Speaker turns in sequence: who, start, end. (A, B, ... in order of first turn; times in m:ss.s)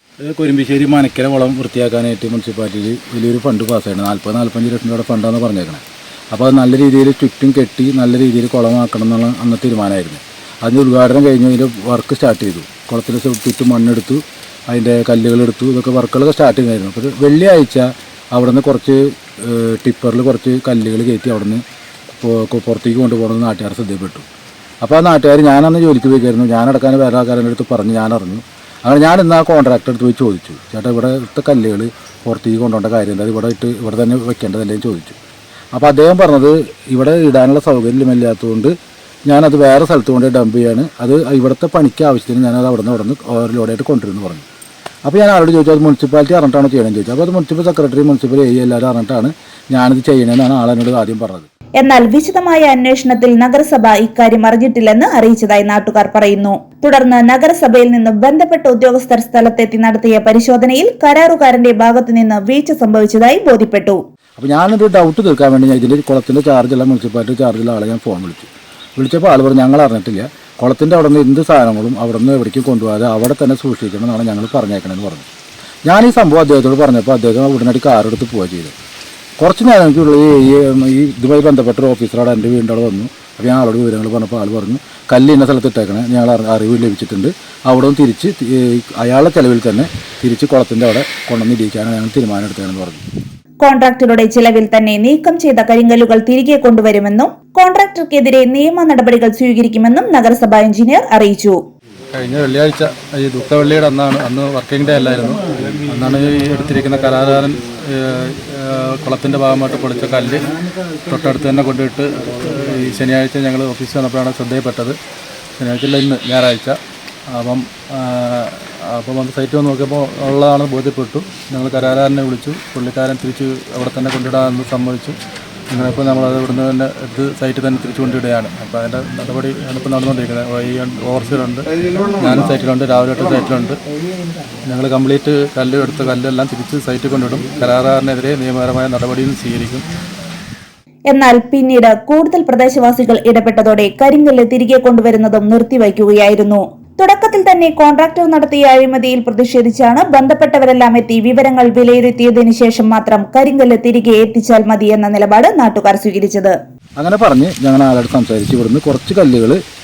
0:00.2-0:21.6 A
0:22.1-0:24.2 A
0:24.8-0:35.2 A
0:35.7-0:38.7 A
0:39.3-0:44.5 A
0:45.1-0:51.5 A
0:51.8-1:04.0 B
1:04.4-1:15.3 A
1:15.9-1:18.7 A
1:19.4-1:33.0 A
1:33.6-1:41.6 B
1:42.1-1:55.0 C
1:55.6-1:56.8 C
1:57.3-2:05.2 C
2:05.7-2:13.8 C
2:14.7-2:19.8 C
2:21.1-2:36.5 B
2:37.0-2:39.6 A